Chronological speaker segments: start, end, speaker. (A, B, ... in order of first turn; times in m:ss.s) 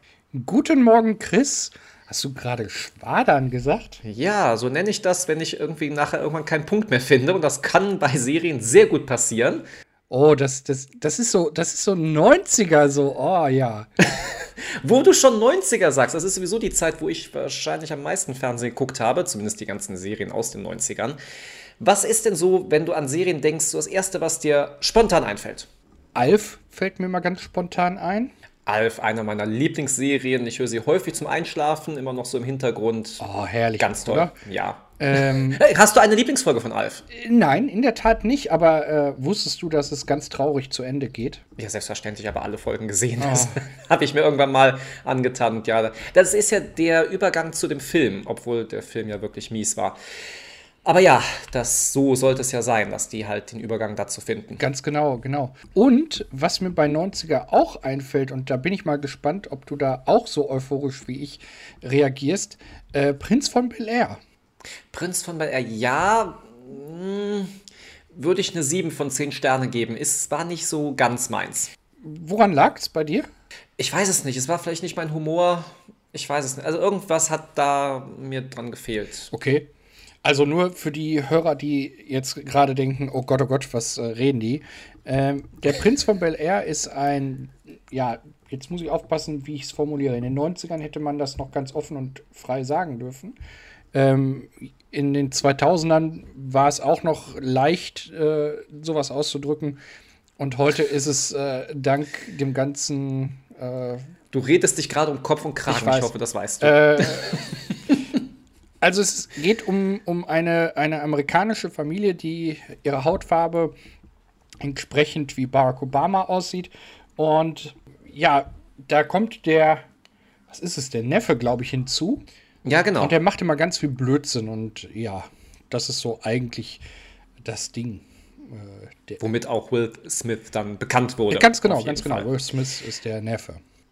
0:00.3-0:04.0 A
0:04.0-0:09.6 B
0:10.1-0:13.9 A
0:14.2-0:21.2 B
0:21.8-0:25.7 B
0:26.1-0:28.3 A
0:28.7-0:33.2 B
0:33.2-0:34.3 A
0:33.8-0:37.0 B
0:35.0-0:35.6 A
0:37.1-0:41.4 A
0:41.6-0:50.0 B
0:43.2-0:43.7 A
0:50.8-0:54.6 B
0:54.6-1:04.2 A
1:04.9-1:07.6 B
1:08.1-1:11.7 B
1:12.0-1:13.3 A
1:13.8-1:19.3 B
1:19.3-1:19.7 A
1:20.2-1:33.4 A
1:33.9-1:39.8 A
1:40.4-1:44.1 A
1:44.3-1:48.0 B
1:45.7-1:47.7 A
1:48.8-1:53.7 A
1:54.6-1:59.8 A
2:00.5-2:02.2 A
2:02.6-2:03.2 B
2:03.0-2:06.8 A
2:07.4-2:09.2 A
2:09.2-2:12.3 B
2:11.3-2:13.6 A